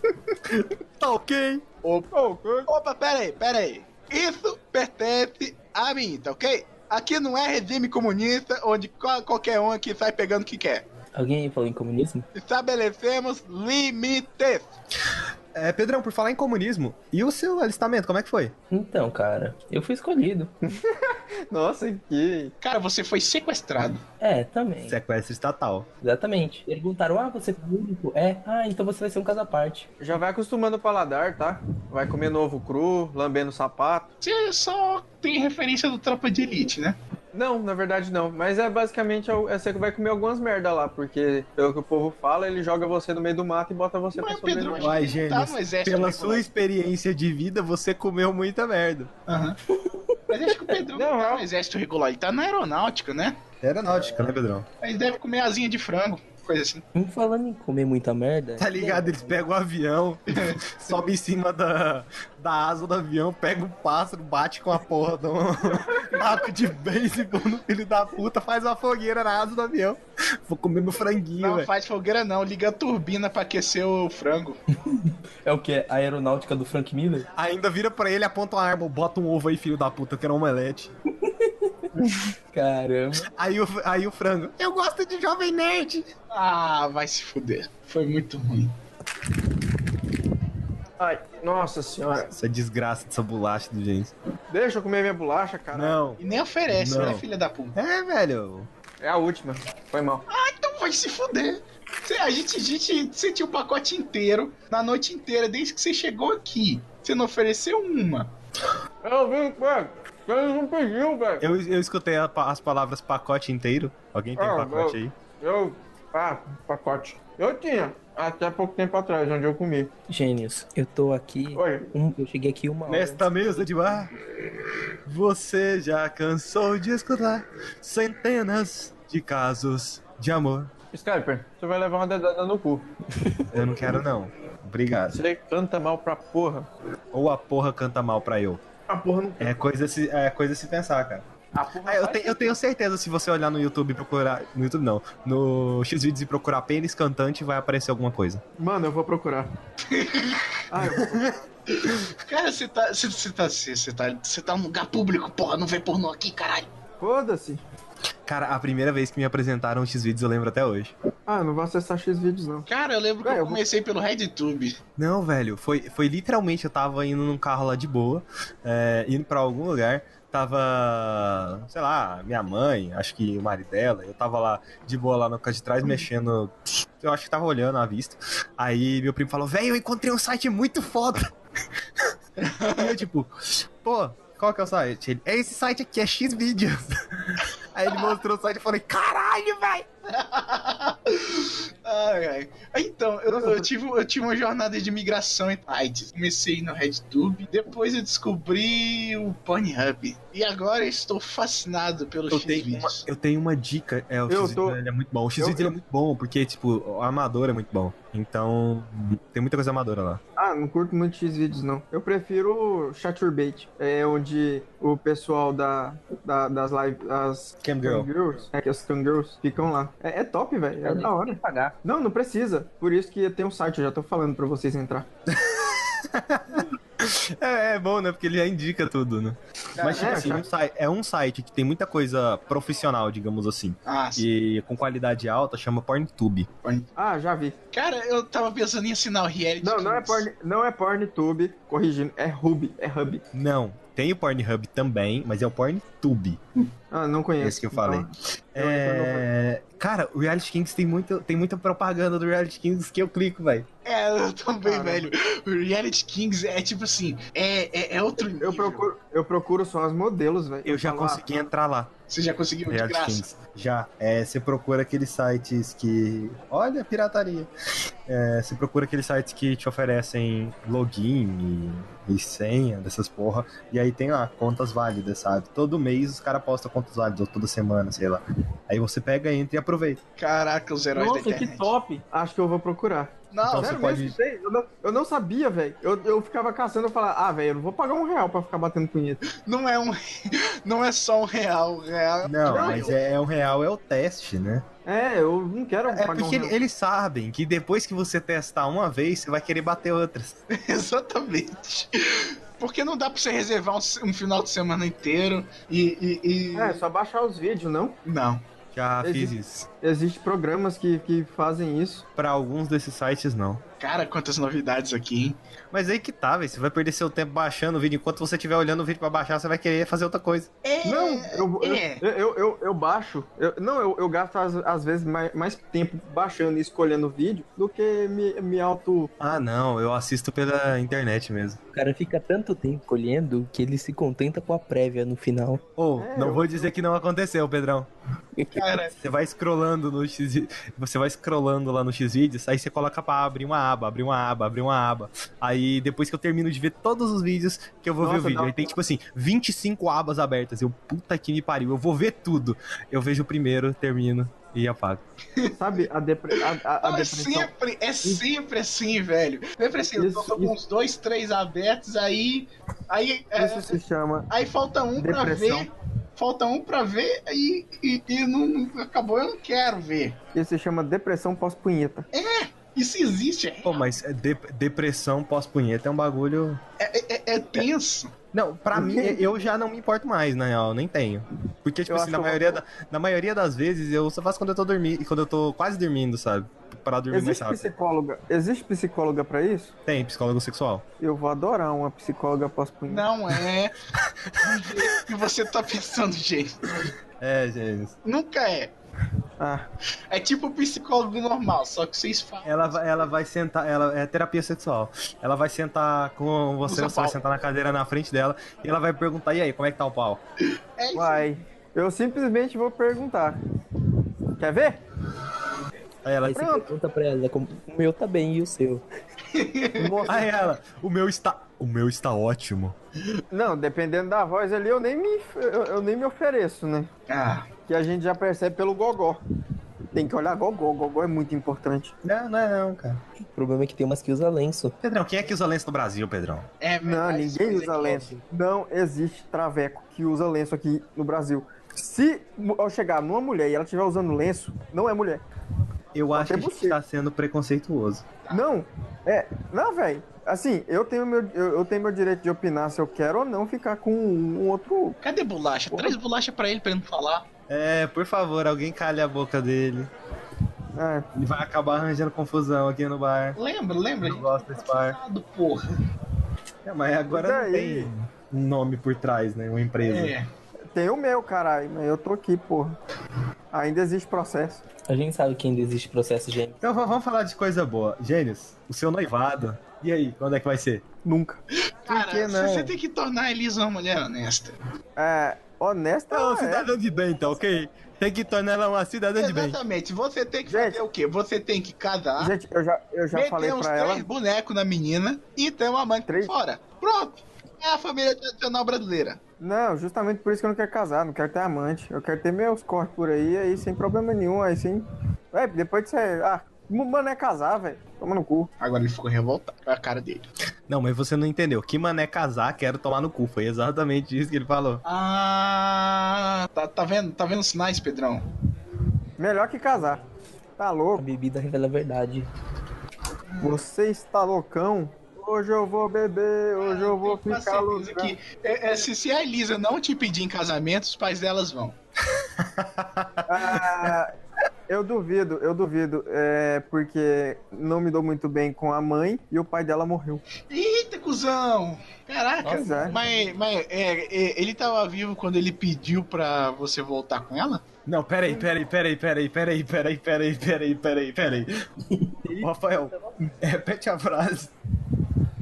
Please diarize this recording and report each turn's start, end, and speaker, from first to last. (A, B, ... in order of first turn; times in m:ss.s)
0:00.4-0:01.6 A
0:01.8-0:02.1 B
0:02.1-0:02.7 C
0:02.6-0:10.8 B
0:11.1-0:12.3 D
0:12.3-0:14.6 B
0:15.5-0:18.5 A
0:18.7-0:20.5 D
0:20.6-0:22.5 C
0:22.6-0:24.0 B
0:24.2-0:25.0 D
0:24.9-0:25.9 A
0:26.0-0:29.9 D
0:30.0-0:34.1 C
0:34.2-0:37.0 B
0:37.3-0:45.0 C
0:44.1-0:46.4 B
0:44.8-0:49.1 A
0:49.3-0:49.6 B
0:49.7-0:50.1 D
0:50.3-0:53.4 B
0:50.9-0:51.5 C
0:53.6-0:54.7 A
0:53.9-0:54.3 D
0:54.8-0:56.8 B
0:56.9-0:59.4 D
0:58.6-1:11.7 A
1:00.3-1:00.6 B
1:11.4-1:14.6 B
1:14.9-1:17.3 D
1:17.4-1:20.9 A
1:21.2-1:21.8 D
1:22.5-1:23.3 D
1:23.2-1:26.1 A
1:26.3-1:28.7 B
1:31.0-1:32.3 C
1:32.3-1:34.1 A
1:34.5-1:36.1 C
1:35.7-1:36.2 A
1:36.2-1:37.8 B
1:36.7-1:38.7 A
1:39.0-1:40.2 C
1:40.3-1:48.3 B
1:49.0-1:51.5 C
1:51.4-1:55.1 A
1:54.4-1:59.9 C
2:00.1-2:03.3 D
2:01.5-2:01.9 C
2:02.8-2:04.1 A
2:05.0-2:10.7 A
2:10.9-2:13.5 C
2:13.5-2:15.2 A
2:15.1-2:16.7 C
2:17.1-2:18.6 A
2:18.9-2:19.6 C
2:19.4-2:21.2 A
2:21.5-2:22.5 C
2:21.8-2:28.4 A
2:28.6-2:29.5 C
2:29.9-2:30.6 B
2:30.7-2:31.4 C
2:30.8-2:31.3 A
2:31.7-2:36.7 B
2:37.0-2:37.6 C
2:38.2-2:40.9 A
2:41.3-2:42.7 C
2:42.7-2:44.8 B
2:43.2-2:43.6 C
2:45.0-3:01.3 A
3:02.4-3:03.0 B
3:02.6-3:09.9 A
3:07.9-3:08.2 B
3:10.1-3:23.0 B
3:13.3-3:13.7 C
3:22.3-3:30.2 A
3:24.3-3:24.8 C
3:25.4-3:25.7 C
3:30.4-3:45.1 C
3:37.6-3:38.1 A
3:40.8-3:41.8 D
3:45.3-3:56.5 A
3:49.8-3:50.4 B
3:49.9-3:50.4 C
3:53.8-3:54.2 B
3:56.6-3:56.9 B
3:57.0-3:57.6 C
3:57.7-4:00.2 B
3:59.6-4:03.2 C
4:03.3-4:06.4 A
4:06.9-4:09.2 C
4:07.4-4:13.7 A
4:13.8-4:18.8 B
4:14.6-4:15.1 C
4:18.4-4:21.2 C
4:20.6-4:21.9 A
4:22.1-4:23.2 B
4:22.7-4:27.5 A
4:28.1-4:40.0 A
4:40.2-4:41.7 B
4:40.9-4:49.2 C
4:43.3-4:43.9 B
4:43.4-4:44.2 A
4:49.3-4:53.0 B
4:52.2-4:54.6 A
4:52.5-4:52.9 C
4:54.8-4:56.6 C
4:55.9-5:00.4 A
5:00.5-5:06.8 B
5:06.5-5:08.0 C
5:08.0-5:08.4 B
5:08.7-5:09.7 A
5:09.0-5:12.0 C
5:12.2-5:13.6 A
5:13.8-5:15.4 B
5:15.7-5:20.5 A
5:20.6-5:22.0 B
5:20.8-5:29.1 C
5:29.2-5:31.6 A
5:31.7-5:35.6 D
5:35.8-5:37.9 A
5:36.0-5:36.7 C
5:38.4-5:38.6 D
5:38.5-5:38.9 B
5:38.9-5:55.0 A
5:48.0-5:48.7 C
5:55.5-5:57.5 C
5:56.8-6:03.7 B
6:00.0-6:00.5 C
6:03.3-6:04.3 C
6:04.3-6:10.2 B
6:05.0-6:05.7 C
6:10.3-6:12.0 C
6:12.1-6:13.9 B
6:13.6-6:16.6 A
6:16.8-6:18.1 B
6:18.3-6:27.7 A
6:18.7-6:19.2 C
6:21.9-6:22.6 C
6:27.1-6:29.7 C
6:29.8-6:30.8 A
6:31.0-6:33.1 C
6:32.9-6:33.8 B
6:34.3-6:34.9 A
6:34.4-6:36.9 B
6:37.2-6:37.9 A
6:38.0-6:38.7 B
6:39.4-6:39.6 C
6:40.1-6:42.9 B
6:42.4-6:50.2 A
6:46.6-6:47.2 B
6:50.8-6:51.3 B
6:50.9-6:53.4 C
6:54.4-6:54.8 C
6:56.0-6:56.5 A
6:56.2-6:58.8 D
6:56.3-6:56.7 C
6:59.3-7:00.0 B
6:59.8-7:00.2 C
7:00.0-7:02.8 A
7:03.3-7:06.9 C
7:07.1-7:07.5 B
7:07.7-7:09.2 C
7:09.9-7:11.9 C
7:12.0-7:13.0 A
7:13.3-7:14.8 D
7:14.8-7:16.5 A
7:16.6-7:18.2 B
7:16.8-7:25.2 C
7:25.9-7:28.0 A
7:26.1-7:26.8 C
7:28.3-7:35.0 C
7:35.0-7:37.3 B
7:35.7-7:36.0 C
7:37.5-7:39.9 A
7:40.7-7:41.1 C
7:41.1-7:43.4 A
7:43.4-7:45.7 B
7:44.0-7:45.0 A
7:46.6-7:50.1 A
7:47.1-7:47.9 C
7:49.8-7:50.3 B
7:50.7-7:52.8 C
7:53.5-7:54.6 C
7:54.9-7:56.6 D
7:56.6-8:00.8 A
8:01.0-8:02.7 C
8:01.8-8:04.6 B
8:05.0-8:06.7 C
8:06.1-8:09.6 A
8:09.2-8:12.3 B
8:10.5-8:10.8 C
8:12.2-8:14.0 C
8:13.1-8:19.2 B
8:16.1-8:16.3 C
8:19.4-8:28.5 C
8:28.6-8:30.3 B
8:30.7-8:34.8 A
8:34.8-8:38.2 B
8:39.2-8:40.0 C
8:40.6-8:41.0 C
8:40.9-8:42.3 D
8:43.4-8:48.2 C
8:46.6-8:51.8 B
8:52.1-8:53.9 A
8:53.3-8:54.1 C
8:54.7-9:00.2 C
9:00.5-9:07.6 B
9:02.4-9:02.9 C
9:02.4-9:03.3 D
9:07.8-9:11.7 A
9:12.2-9:12.5 C
9:12.4-9:14.5 A